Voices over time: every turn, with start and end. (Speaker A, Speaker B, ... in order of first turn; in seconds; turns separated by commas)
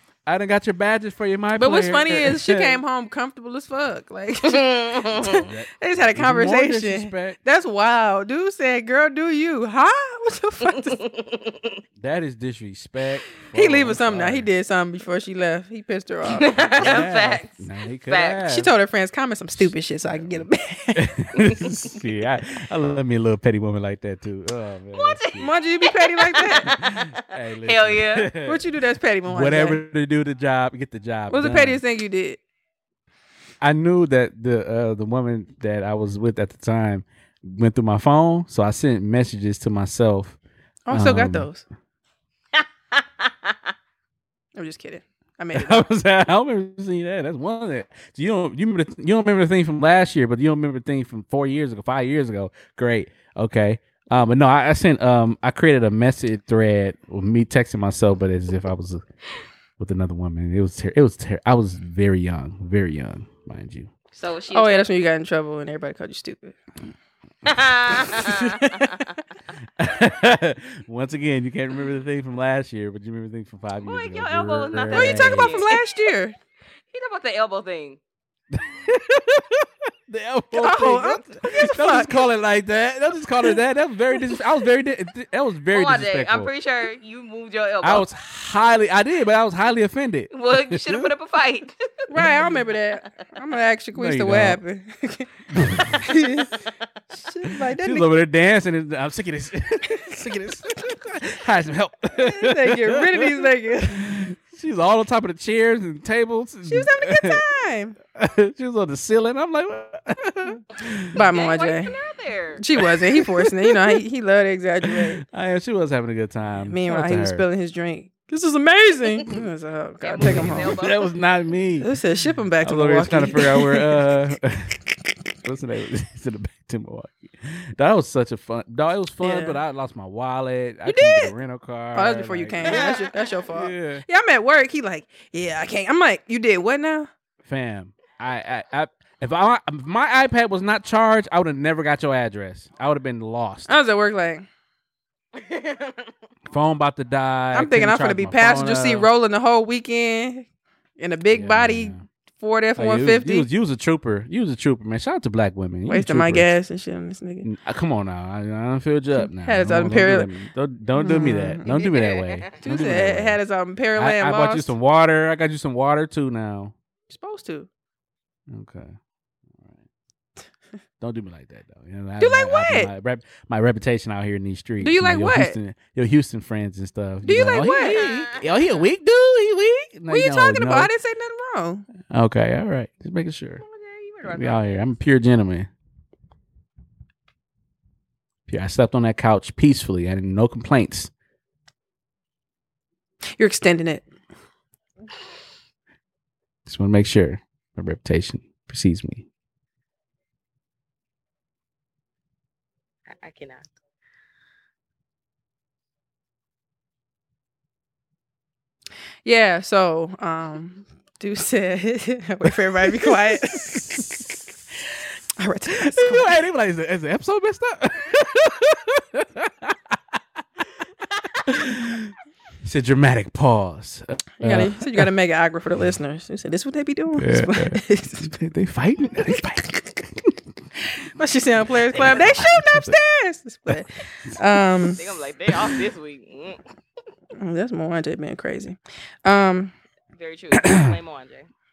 Speaker A: 0.2-2.8, Speaker B: 1.5-11.0, Speaker C: 4.5-5.5, Speaker A: 5.1-7.4, Speaker C: 10.7-11.8, Speaker A: 12.0-14.5, Speaker B: 13.5-17.0, Speaker C: 16.3-18.4, Speaker A: 16.8-18.7, Speaker B: 18.5-21.2, Speaker A: 19.6-25.5, Speaker C: 21.4-21.7, Speaker C: 24.9-28.3, Speaker B: 25.4-26.8, Speaker A: 26.8-28.6, Speaker B: 28.4-29.8, Speaker A: 29.3-31.8, Speaker B: 31.3-32.4, Speaker A: 33.6-40.4, Speaker B: 40.9-41.6, Speaker A: 40.9-41.5, Speaker C: 42.5-43.7, Speaker B: 44.5-45.8, Speaker A: 45.5-59.0, Speaker A: 59.8-63.9, Speaker C: 64.1-64.9, Speaker B: 64.5-66.6, Speaker C: 67.4-69.1, Speaker B: 68.3-69.0, Speaker A: 69.8-75.6, Speaker C: 73.8-75.8, Speaker B: 74.9-76.3, Speaker C: 76.9-78.0, Speaker A: 78.5-86.5, Speaker B: 80.5-82.2, Speaker C: 85.7-88.0, Speaker A: 87.8-91.1, Speaker C: 90.3-92.1, Speaker B: 92.1-95.3, Speaker A: 94.0-94.6, Speaker A: 95.5-96.0, Speaker B: 95.9-98.1, Speaker A: 97.5-107.4, Speaker B: 99.9-101.0, Speaker B: 102.2-104.2, Speaker B: 106.7-108.0, Speaker A: 108.1-111.1, Speaker B: 111.1-112.0, Speaker C: 111.3-112.6, Speaker B: 112.6-115.2, Speaker A: 112.8-114.0, Speaker A: 114.9-117.4, Speaker B: 116.5-120.8, Speaker C: 120.0-121.0, Speaker A: 120.2-121.9, Speaker B: 121.8-124.1, Speaker A: 122.6-124.8, Speaker A: 125.4-132.8, Speaker B: 129.2-129.6, Speaker B: 130.8-131.3, Speaker B: 131.9-137.1, Speaker A: 133.5-134.0, Speaker A: 137.4-143.7, Speaker B: 143.7-144.4, Speaker C: 145.3-146.1, Speaker A: 146.5-149.1, Speaker B: 147.5-150.5, Speaker B: 151.0-153.5, Speaker A: 151.3-152.0, Speaker A: 152.8-156.5, Speaker B: 155.9-157.4, Speaker A: 157.4-163.4, Speaker B: 159.2-160.3, Speaker B: 160.9-164.7, Speaker C: 161.7-162.6, Speaker A: 164.0-166.7, Speaker B: 167.1-167.7, Speaker A: 168.5-169.0, Speaker A: 171.0-180.9, Speaker B: 172.2-172.9, Speaker B: 174.8-175.6, Speaker B: 177.2-178.1, Speaker C: 177.9-178.9, Speaker B: 180.1-181.8, Speaker A: 182.1-183.6, Speaker C: 183.6-184.9, Speaker A: 184.3-185.7, Speaker A: 188.5-191.1, Speaker B: 193.4-194.1, Speaker A: 196.7-199.2, Speaker C: 203.1-203.8, Speaker B: 209.2-214.3, Speaker A: 212.9-214.2, Speaker B: 215.4-216.4, Speaker A: 215.7-219.9, Speaker A: 221.4-225.1, Speaker B: 224.4-228.2, Speaker A: 227.2-230.3, Speaker B: 230.9-235.0, Speaker A: 231.9-232.9, Speaker C: 234.9-236.6, Speaker B: 237.4-239.7, Speaker C: 240.1-241.5, Speaker A: 240.5-240.9